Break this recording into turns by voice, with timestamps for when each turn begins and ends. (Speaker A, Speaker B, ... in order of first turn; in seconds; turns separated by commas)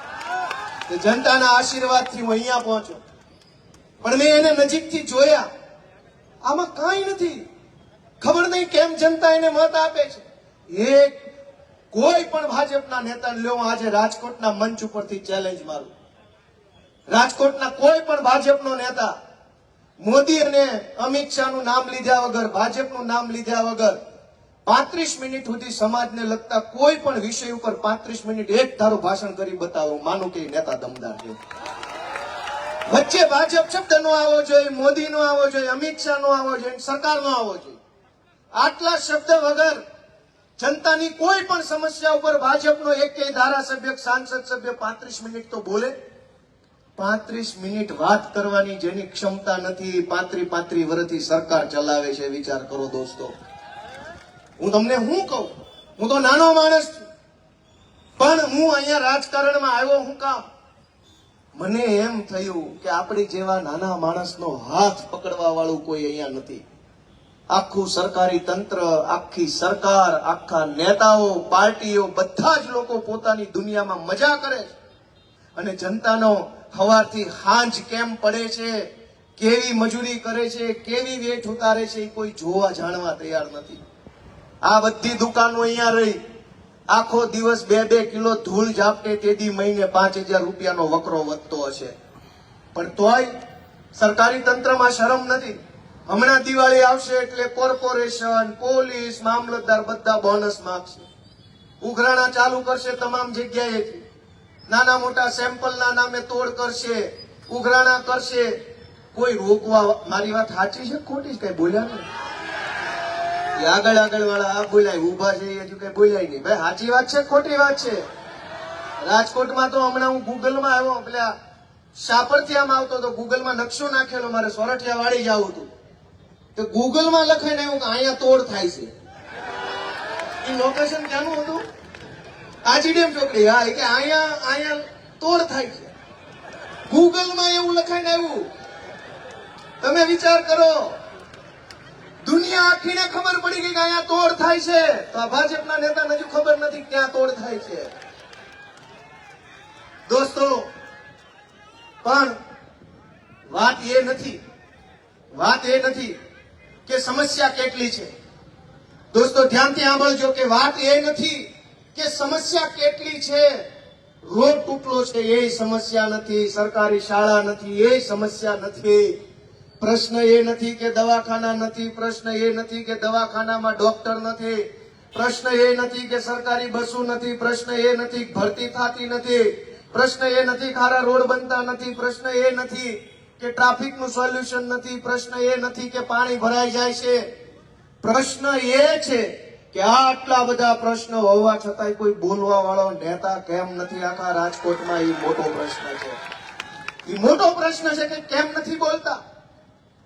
Speaker A: 0.9-3.0, Speaker A: 4.0-5.5, Speaker A: 6.4-7.4, Speaker A: 8.2-11.2, Speaker A: 11.9-15.9, Speaker A: 17.1-19.1, Speaker A: 20.0-24.0, Speaker A: 24.6-31.4, Speaker A: 32.9-37.8, Speaker A: 38.5-39.8, Speaker A: 40.6-45.9, Speaker A: 47.0-53.3, Speaker A: 54.6-57.0, Speaker A: 58.2-60.4, Speaker A: 61.5-66.6, Speaker A: 67.5-74.7, Speaker A: 75.5-83.8, Speaker A: 84.6-86.2, Speaker A: 86.9-91.9, Speaker A: 92.7-93.3, Speaker A: 93.9-101.1, Speaker A: 101.8-104.0, Speaker A: 104.7-108.5, Speaker A: 109.1-112.0, Speaker A: 113.6-118.0, Speaker A: 119.0-121.3, Speaker A: 121.9-125.7, Speaker A: 126.5-128.9, Speaker A: 130.4-131.6, Speaker A: 132.6-135.9, Speaker A: 136.9-138.5, Speaker A: 139.8-141.0, Speaker A: 142.2-147.9, Speaker A: 150.1-150.7, Speaker A: 152.0-152.3, Speaker A: 153.5-154.4, Speaker A: 155.3-156.2, Speaker A: 156.8-158.1, Speaker A: 159.1-163.6, Speaker A: 164.2-169.2, Speaker A: 169.8-187.2, Speaker A: 188.0-196.2, Speaker A: 197.1-199.2